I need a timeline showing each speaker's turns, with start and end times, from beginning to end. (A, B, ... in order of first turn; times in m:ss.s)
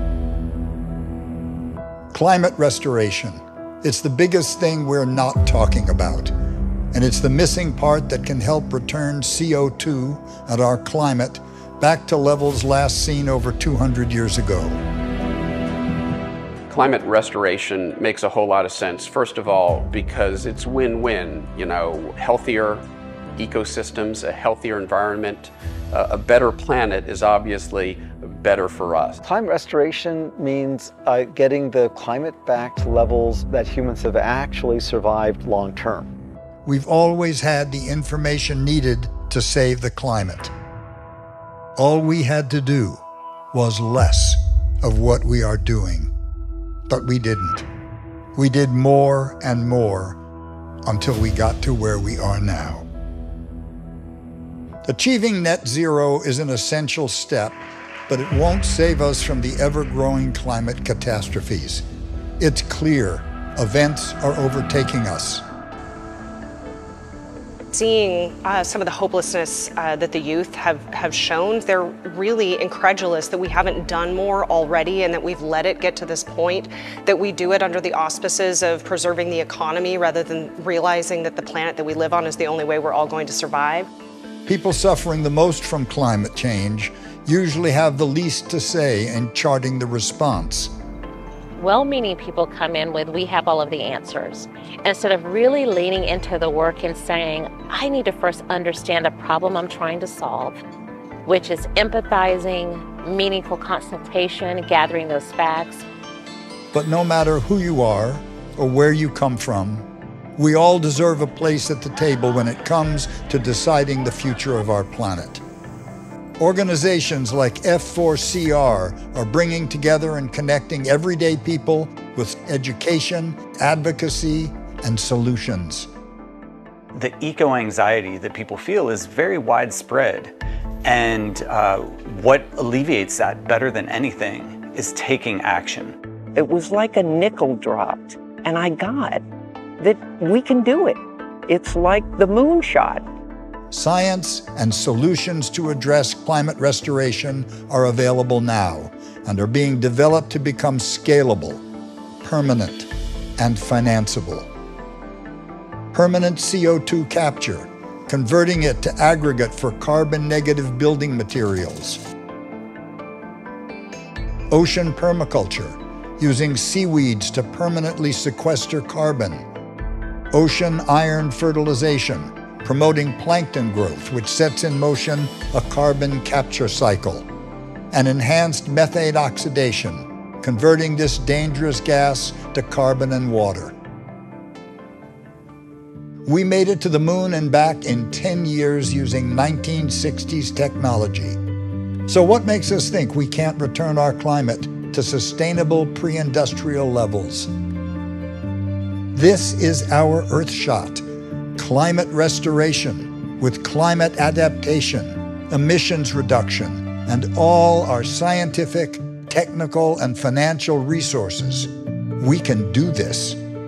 0:02.1-0:06.3 A
0:06.9-0:14.8 A
0:16.7-0:22.9 B
0:23.4-0:29.2 B
0:29.2-0:36.1 C
0:36.7-0:40.5 A
0:41.8-0:43.0 A
0:43.5-0:46.1 A
0:46.9-0:47.7 A
0:48.4-0:50.2 A
0:50.8-0:52.9 A
0:54.8-1:01.8 A
1:02.4-1:05.4 A
1:07.7-1:23.9 D
1:24.5-1:30.7 A
1:31.6-1:40.6 E
1:41.2-1:45.8 E
1:46.7-1:55.4 A
1:56.4-2:05.9 A
2:06.9-2:16.0 F
2:16.4-2:19.2 G
2:19.8-2:23.0 G
2:23.7-2:31.6 A
2:32.2-2:34.5 A
2:35.9-2:42.0 A
2:44.5-2:49.4 A
2:50.3-2:57.3 A
2:57.9-3:03.8 A
3:06.3-3:11.4 A
3:12.1-3:17.5 A
3:19.1-3:33.4 A